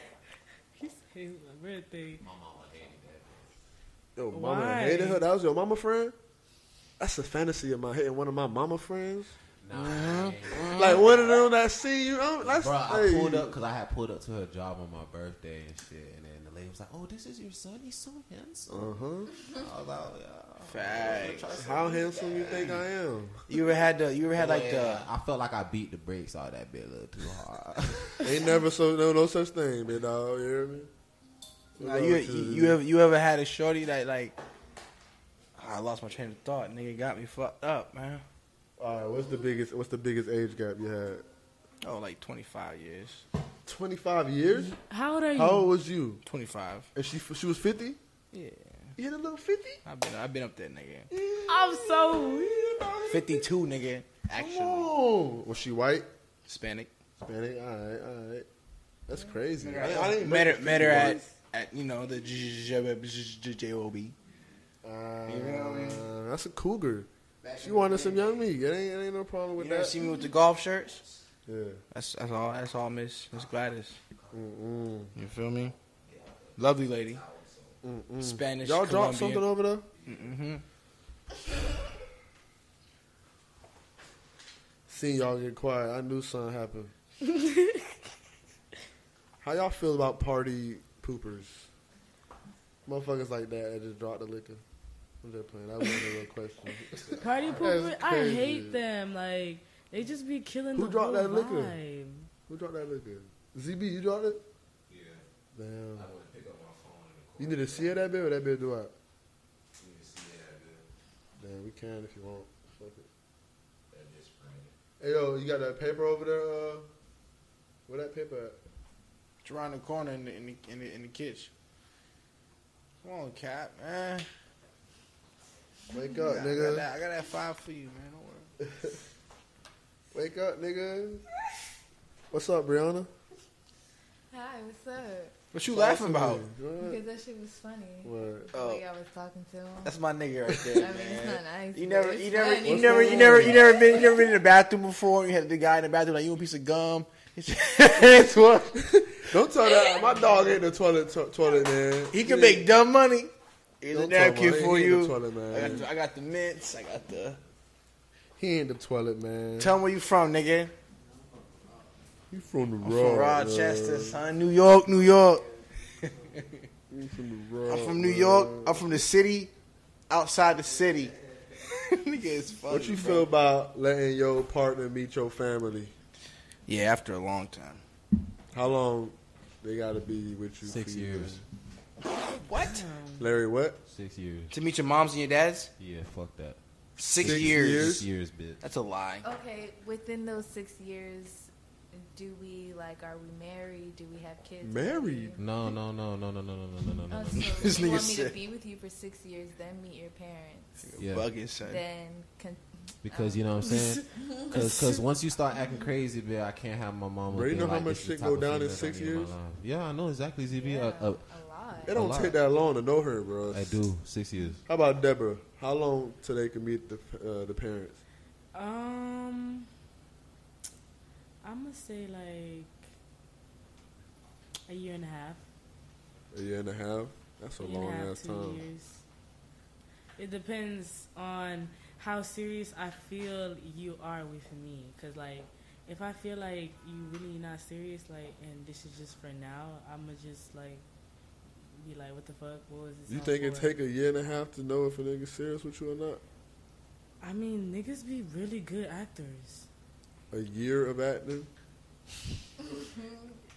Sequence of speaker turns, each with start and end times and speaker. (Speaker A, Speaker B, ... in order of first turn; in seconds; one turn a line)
Speaker A: 0.8-2.2
Speaker B: 2.2-3.5
Speaker C: 4.2-6.2
Speaker A: 4.3-5.2
Speaker C: 7.0-9.3
Speaker B: 9.6-11.4
Speaker D: 9.7-11.2
Speaker C: 10.7-13.6
Speaker B: 12.4-22.9
Speaker C: 18.7-19.3
Speaker D: 20.6-21.6
Speaker C: 21.5-23.4
Speaker D: 23.5-25.1
Speaker B: 24.3-28.4
Speaker C: 28.2-30.9
Speaker C: 31.8-32.8
Speaker D: 31.8-34.4
Speaker D: 35.6-38.2
Speaker C: 38.8-41.2
Speaker D: 41.8-43.2
Speaker C: 43.7-44.8
Speaker A: 44.5-45.7
Speaker C: 45.4-46.2
Speaker D: 46.2-46.9
Speaker C: 47.0-48.0
Speaker D: 48.3-48.9
Speaker C: 49.0-49.8
Speaker D: 49.9-51.1
Speaker C: 51.1-53.5
Speaker A: 51.5-52.7
Speaker D: 53.1-54.9
Speaker C: 54.3-56.1
Speaker D: 56.5-56.9
Speaker C: 57.2-58.5
Speaker C: 59.1-61.2
Speaker D: 59.6-64.2
Speaker C: 64.8-67.1
Speaker D: 65.3-66.1
Speaker B: 67.5-68.2
Speaker D: 67.5-68.1
Speaker C: 67.6-70.0
Speaker D: 69.6-71.0
Speaker C: 71.5-71.8
Speaker D: 71.9-74.0
Speaker C: 74.3-75.1
Speaker D: 75.2-75.7
Speaker B: 76.1-77.8
Speaker D: 76.6-77.2
Speaker C: 77.8-79.9
Speaker D: 78.2-79.5
Speaker B: 80.0-80.3
Speaker D: 80.0-80.6
Speaker C: 84.9-86.9
Speaker A: 87.2-88.0
Speaker C: 89.4-91.7
Speaker C: 92.9-94.6
Speaker C: 95.2-98.8
Speaker A: 97.2-102.3
Speaker C: 100.8-101.8
Speaker C: 102.5-104.4
Speaker B: 104.9-105.2
Speaker C: 105.5-106.1
Speaker B: 106.0-108.0
Speaker C: 107.4-108.9
Speaker B: 109.8-110.8
Speaker C: 111.4-113.1
Speaker B: 113.9-114.7
Speaker C: 115.0-116.9
Speaker C: 117.9-118.6
Speaker D: 119.4-121.5
Speaker D: 123.0-124.3
Speaker C: 125.9-126.9
Speaker D: 126.2-128.5
Speaker C: 128.7-129.0
Speaker C: 130.1-131.2
Speaker C: 132.3-133.1
Speaker E: 134.3-135.3
Speaker D: 135.5-136.4
Speaker C: 135.7-137.0
Speaker E: 136.8-139.9
Speaker C: 138.0-138.5
Speaker D: 138.5-138.8
Speaker D: 139.8-148.8
Speaker E: 140.7-144.0
Speaker C: 142.6-143.7
Speaker C: 148.9-152.7
Speaker E: 149.7-150.6
Speaker D: 152.1-153.3
Speaker D: 153.8-157.4
Speaker C: 153.9-155.9
Speaker C: 158.4-159.8
Speaker D: 159.6-160.7
Speaker C: 162.3-164.2
Speaker D: 162.8-165.4
Speaker D: 166.0-166.6
Speaker C: 166.9-168.8
Speaker D: 167.7-169.5
Speaker D: 170.1-173.3
Speaker C: 172.7-175.9
Speaker D: 176.7-177.8
Speaker C: 178.5-181.4
Speaker B: 180.6-181.4
Speaker D: 182.3-182.9
Speaker A: 182.6-183.3
Speaker C: 183.2-183.8
Speaker B: 183.9-184.6
Speaker D: 184.5-185.7
Speaker B: 185.8-186.6
Speaker D: 187.0-188.0
Speaker B: 187.1-188.6
Speaker C: 187.2-188.1
Speaker D: 188.6-189.3
Speaker E: 189.2-195.7
Speaker C: 194.6-195.3
Speaker B: 195.4-197.8
Speaker E: 197.1-200.9
Speaker D: 197.4-198.4
Speaker D: 200.8-201.8
Speaker B: 201.0-201.3
Speaker E: 201.7-204.5
Speaker B: 203.0-211.2
Speaker A: 204.6-204.8
Speaker C: 207.3-209.3
Speaker E: 210.5-212.0
Speaker B: 211.8-212.4
Speaker C: 211.9-213.8
Speaker B: 213.5-214.6
Speaker C: 214.7-218.0
Speaker A: 218.5-219.7
Speaker A: 221.4-222.8
Speaker A: 224.7-225.4
Speaker C: 226.3-228.6
Speaker A: 227.6-229.0
Speaker A: 230.2-240.8
Speaker A: 241.7-243.7
Speaker C: 243.1-246.2
Speaker A: 247.2-249.7
Speaker C: 250.3-251.5